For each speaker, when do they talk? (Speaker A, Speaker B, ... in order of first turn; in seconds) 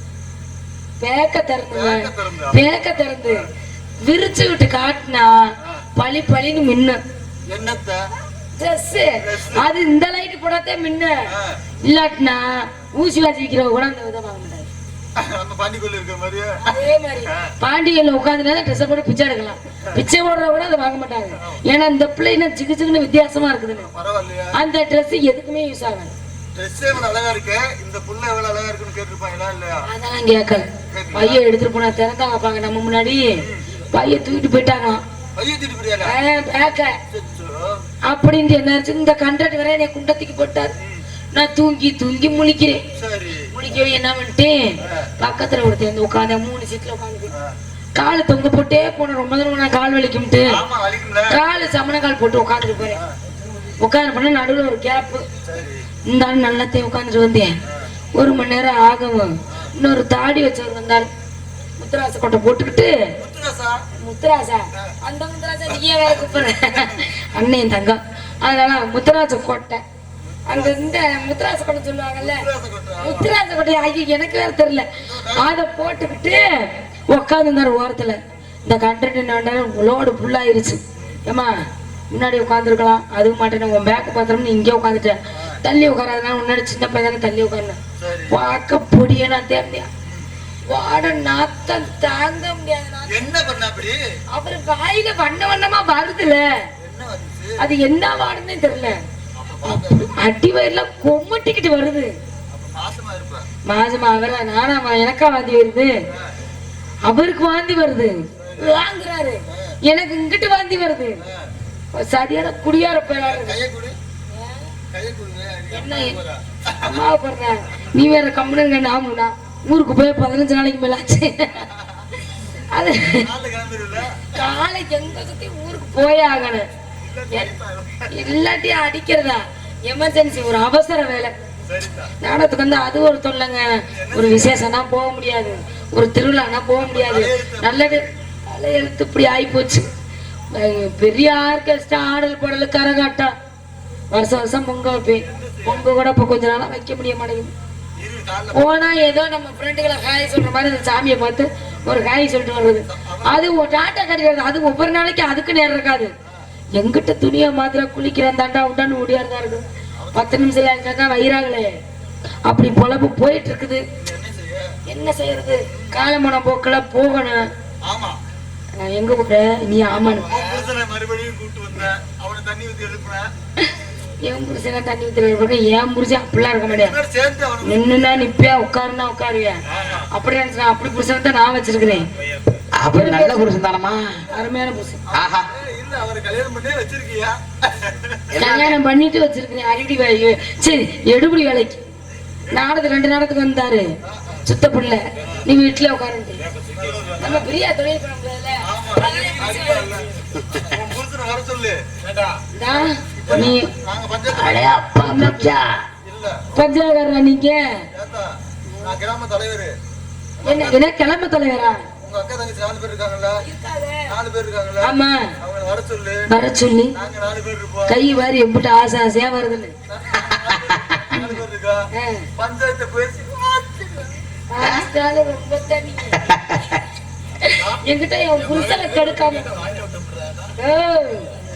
Speaker A: 1.0-3.5, 4.0-7.0, 8.5-11.3, 11.8-14.7, 16.6-23.9, 24.5-26.1, 29.8-33.4, 33.9-35.0, 36.0-37.0, 38.1-40.7, 41.3-42.8, 43.5-47.3, 47.9-50.6, 51.3-53.0, 53.8-55.2, 56.1-57.5, 58.1-61.1, 61.8-62.9, 64.0-69.8, 70.5-72.5, 73.0-81.5, 82.1-87.8, 88.3-89.9, 90.7-93.3, 94.3-96.4, 97.6-99.0, 99.6-102.1, 103.6-105.9, 107.0-111.2, 111.9-113.6, 114.3-114.7, 115.7-116.2, 116.8-121.7, 122.3-123.3, 124.3-126.7, 128.1-131.3, 132.2-139.8, 140.5-143.3, 144.1-147.5, 148.5-156.1, 156.8-161.7, 162.4-163.8, 164.9-167.4, 168.8-170.3, 173.6-176.9, 177.6-182.1, 182.8-183.6, 184.2-185.0, 188.3-191.8, 192.5-193.9, 194.4-196.4, 197.2-200.0, 202.5-203.7, 204.7-205.7, 206.5-207.8, 208.7-209.0, 210.4-211.8, 213.4-214.1, 214.8-215.3, 216.3-216.9, 217.9-219.7, 221.1-221.3, 221.9-222.3, 224.5-226.3, 227.4-229.6, 230.6-231.3
Speaker B: 1.7-2.7, 7.5-8.1, 9.2-9.7, 11.3-11.6, 15.2-16.7, 17.2-17.5, 23.7-24.5, 26.5-29.9, 30.9-31.4, 33.4-33.6, 35.4-36.2, 37.1-37.8, 42.9-43.5, 44.8-45.1, 50.5-51.4, 52.9-53.1, 55.4-55.9, 63.2-63.8, 65.7-67.1, 70.5-70.8, 72.2-73.3, 75.0-75.5, 85.3-85.6, 88.0-88.4, 93.1-94.0, 96.8-97.7, 99.3-100.1, 102.5-103.5, 106.1-106.3, 108.4-108.8, 109.5-109.8, 111.2-111.5, 113.1-114.0, 114.9-117.0, 121.5-122.1, 123.1-124.3, 127.0-128.2, 131.7-132.2, 133.9-134.7, 136.8-138.1, 145.1-145.9, 148.0-148.8, 152.9-153.5, 160.0-160.6, 164.0-164.7, 165.7-166.0, 167.8-168.2, 169.9-173.3, 176.7-177.9, 179.7-180.1, 185.1-188.5, 194.0-194.4, 195.2-195.4, 196.7-197.5, 198.6-201.9, 202.7-204.7, 206.0-206.8, 207.9-209.8, 210.4-210.9, 212.0-213.4, 214.1-216.2, 216.9-218.1, 219.9-224.7, 227.5-230.5
Speaker C: 182.6-184.3, 185.1-185.5, 188.3-188.8, 200.3-200.6, 204.3-205.8, 220.3-221.1, 226.2-226.8